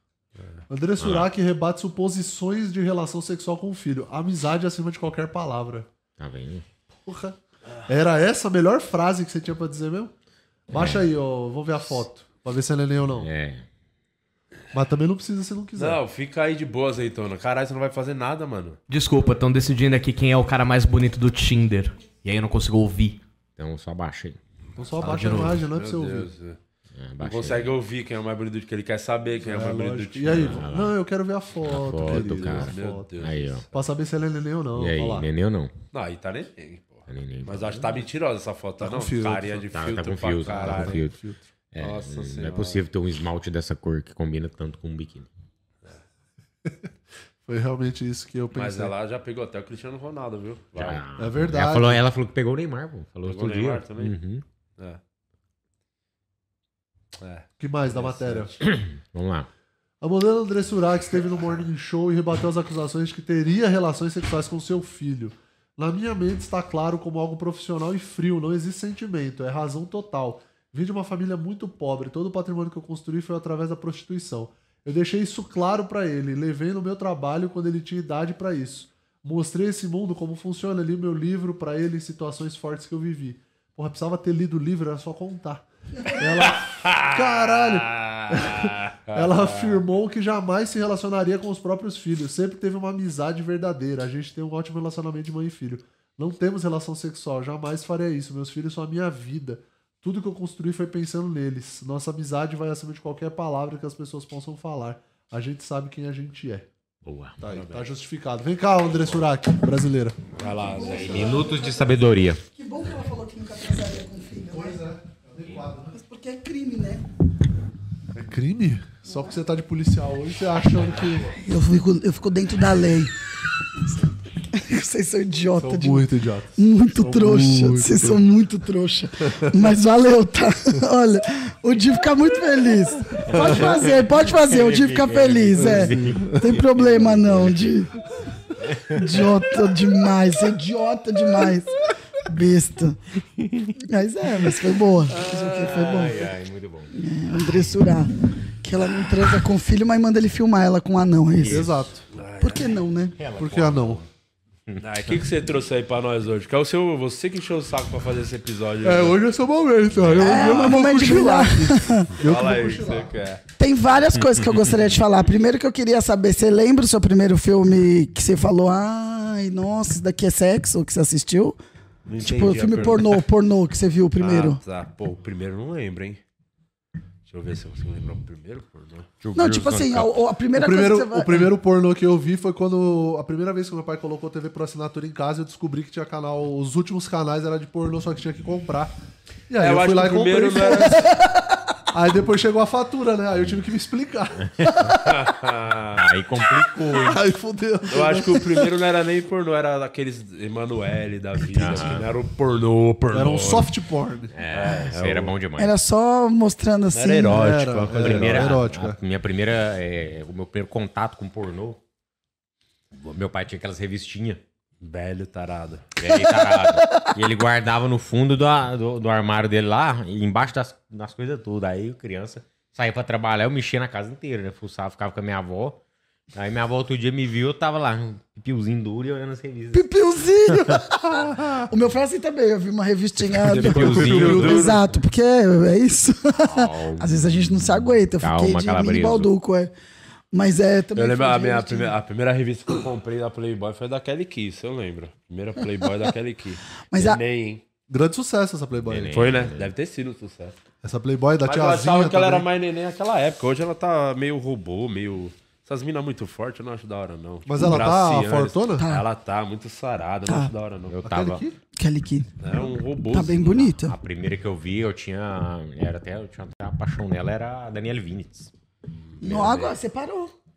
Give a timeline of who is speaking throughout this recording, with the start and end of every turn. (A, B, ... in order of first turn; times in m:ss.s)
0:00.7-0:05.9 A
0:01.0-0:01.3 B
0:06.2-0:06.6 B
0:07.1-0:10.1 A
0:10.7-0:13.3 A
0:10.7-0:11.0 B
0:13.2-0:13.6 B
0:14.7-0:16.0 A
0:15.8-0:18.8 C
0:18.9-0:23.2 D
0:23.6-0:24.4 B
0:24.8-0:26.3 A
0:25.0-0:25.6 D
0:25.5-0:26.6 C
0:27.0-0:27.7 B
0:27.2-0:30.6 C
0:29.4-0:33.1 A
0:30.3-0:31.0 B
0:31.6-0:33.6 B
0:32.0-0:33.6 C
0:33.7-0:35.3 A
0:34.8-0:35.7 B
0:35.9-0:41.0 C
0:37.1-0:37.8 B
0:38.8-0:39.6 A
0:39.7-0:41.2 B
0:40.5-0:41.4 A
0:41.7-0:45.3 B
0:41.8-0:42.8 C
0:46.6-0:46.9 A
0:47.4-0:48.9 A
0:48.5-0:51.0 C
0:50.8-0:54.4 B
0:51.2-0:52.0 A
0:53.2-0:54.2 C
0:57.2-0:58.6 C
0:57.6-0:58.5 A
0:58.6-0:59.5 B
1:00.0-1:46.7 A
1:26.4-1:29.8 C
1:47.0-1:47.4 B
1:47.4-1:50.2 A
1:47.5-1:47.9 C
1:50.4-1:51.5 C
1:50.4-1:52.0 E
1:50.8-1:52.4 B
1:52.5-1:54.8 E
1:54.5-1:56.0 A
1:55.9-1:57.1 E
1:58.1-2:01.3 A
1:59.1-1:59.3 E
2:01.4-2:03.1 E
2:03.8-2:17.9 E
2:05.6-2:08.2 A
2:13.3-2:13.6 A
2:13.3-2:17.6 B
2:15.6-2:16.4 A
2:18.6-2:19.3 B
2:18.9-2:23.0 E
2:23.8-2:26.3 E
2:25.1-2:26.9 B
2:26.9-2:31.7 E
2:31.4-2:31.8 B
2:31.5-2:32.0 A
2:32.1-2:32.8 C
2:32.4-2:33.2 E
2:33.2-2:34.1 B
2:33.4-2:34.0 A
2:34.7-2:35.1 B
2:34.8-2:39.2 C
2:38.8-2:43.1 A
2:40.2-2:42.1 E
2:42.2-2:43.4 C
2:43.6-2:51.6 E
2:44.2-2:44.9 B
2:52.1-2:53.2 C
2:52.2-2:54.6 E
2:54.2-2:56.2 C
2:57.3-2:59.1 C
2:59.2-3:00.2 B
2:59.4-3:01.5 E
3:00.5-3:09.0 A
3:09.5-3:11.0 A
3:09.6-3:11.1 C
3:11.0-3:11.4 E
3:11.9-3:14.9 A
3:15.0-3:16.0 C
3:16.0-3:17.2 B
3:16.8-3:18.7 A
3:17.9-3:23.7 C
3:21.5-3:22.1 B
3:21.6-3:22.0 A
3:23.1-3:24.3 A
3:24.3-3:25.8 B
3:24.5-3:25.3 C
3:25.6-3:27.5 E
3:26.9-3:28.6 C
3:27.3-3:29.0 A
3:27.9-3:31.8 B
3:32.9-3:34.4 B
3:34.8-3:35.9 C
3:36.0-3:45.8 B
3:36.2-3:36.6 E
3:46.3-3:49.9 B
3:49.7-3:59.7 E
3:50.5-3:50.8 B
3:53.4-3:54.8 C
3:53.5-3:54.8 B
3:53.7-3:54.8 A
3:56.4-3:59.3 B
4:00.3-4:02.0 E
4:01.0-4:07.6 C
4:06.9-4:07.2 E
4:07.9-4:09.2 A
4:08.9-4:09.7 B
4:09.1-4:10.6 C
4:10.8-4:12.5 A
4:11.4-4:21.0 C
4:17.5-4:18.8 A
4:18.8-4:19.0 E
4:20.9-4:21.4 B
4:21.0-4:21.6 A
4:21.8-4:22.3 E
4:22.4-4:23.5 C
4:23.1-4:24.0 E
4:23.4-4:28.5 B
4:29.1-4:29.8 C
4:29.2-4:30.3 E